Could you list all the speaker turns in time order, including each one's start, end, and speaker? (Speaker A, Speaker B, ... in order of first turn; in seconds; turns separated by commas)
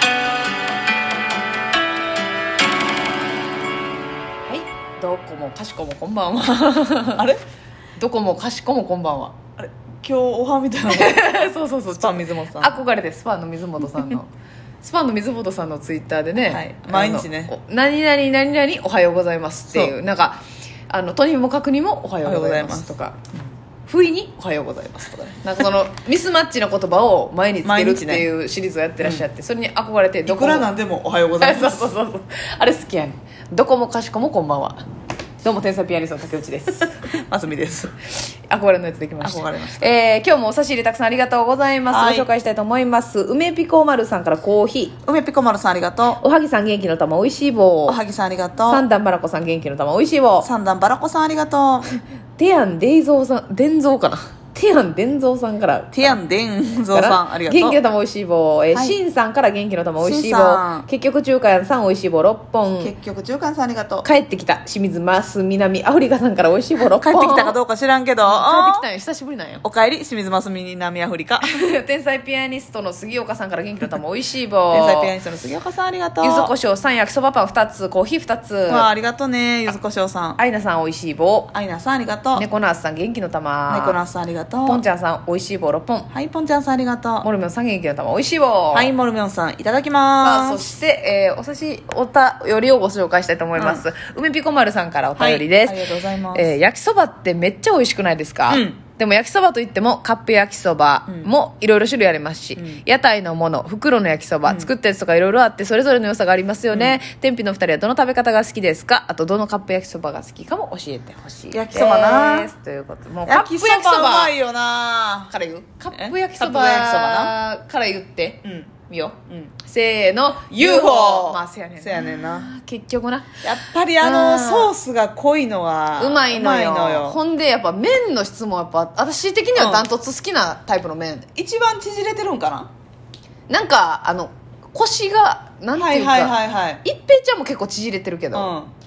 Speaker A: 4.5-7.2, Speaker A: 8.0-9.3, Speaker B: 9.6-12.8, Speaker A: 10.9-14.3, Speaker A: 14.8-23.2, Speaker B: 16.4-17.5, Speaker B: 19.7-19.9, Speaker B: 22.2-22.9, Speaker A: 23.9-30.7, Speaker B: 27.6-28.2, Speaker B: 29.0-29.2, Speaker B: 30.2-31.9, Speaker A: 31.4-34.8, Speaker A: 35.4-37.1, Speaker B: 37.0-37.9, Speaker A: 38.2-45.0, Speaker B: 39.2-39.9, Speaker B: 41.9-42.3, Speaker B: 45.0-46.2, Speaker A: 46.2-48.0, Speaker B: 47.9-48.9, Speaker A: 48.6-50.5, Speaker B: 50.4-52.0, Speaker A: 52.4-56.2, Speaker B: 55.9-57.8, Speaker A: 56.9-62.9, Speaker B: 58.7-59.0, Speaker B: 60.0-60.9, Speaker B: 62.8-64.1, Speaker A: 64.0-67.5, Speaker B: 66.9-68.8, Speaker A: 68.2-69.6, Speaker B: 69.6-71.5, Speaker A: 71.4-75.1, Speaker B: 74.7-76.5, Speaker A: 76.2-78.9, Speaker B: 78.7-80.4, Speaker A: 80.4-81.5, Speaker B: 81.5-82.5, Speaker A: 82.3-84.0, Speaker B: 83.7-84.8, Speaker A: 84.6-86.1, Speaker B: 86.1-87.3, Speaker A: 87.2-88.9, Speaker B: 88.7-90.7, Speaker A: 90.2-114.3, Speaker B: 93.5-93.8, Speaker B: 95.2-96.5, Speaker B: 98.5-98.8, Speaker B: 101.1-101.3, Speaker B: 102.5-102.8, Speaker B: 104.5-104.7, Speaker B: 106.7-107.0, Speaker B: 111.5-112.5, Speaker B: 113.2-115.3, Speaker A: 115.3-123.4, Speaker B: 115.9-117.3, Speaker B: 118.4-118.7, Speaker B: 119.3-119.5, Speaker B: 120.5-122.5, Speaker B: 123.4-127.2, Speaker A: 124.0-124.7, Speaker A: 126.0-131.3, Speaker B: 129.6-129.9, Speaker B: 131.3-132.7, Speaker A: 133.5-138.5, Speaker B: 135.8-136.8, Speaker B: 138.3-138.7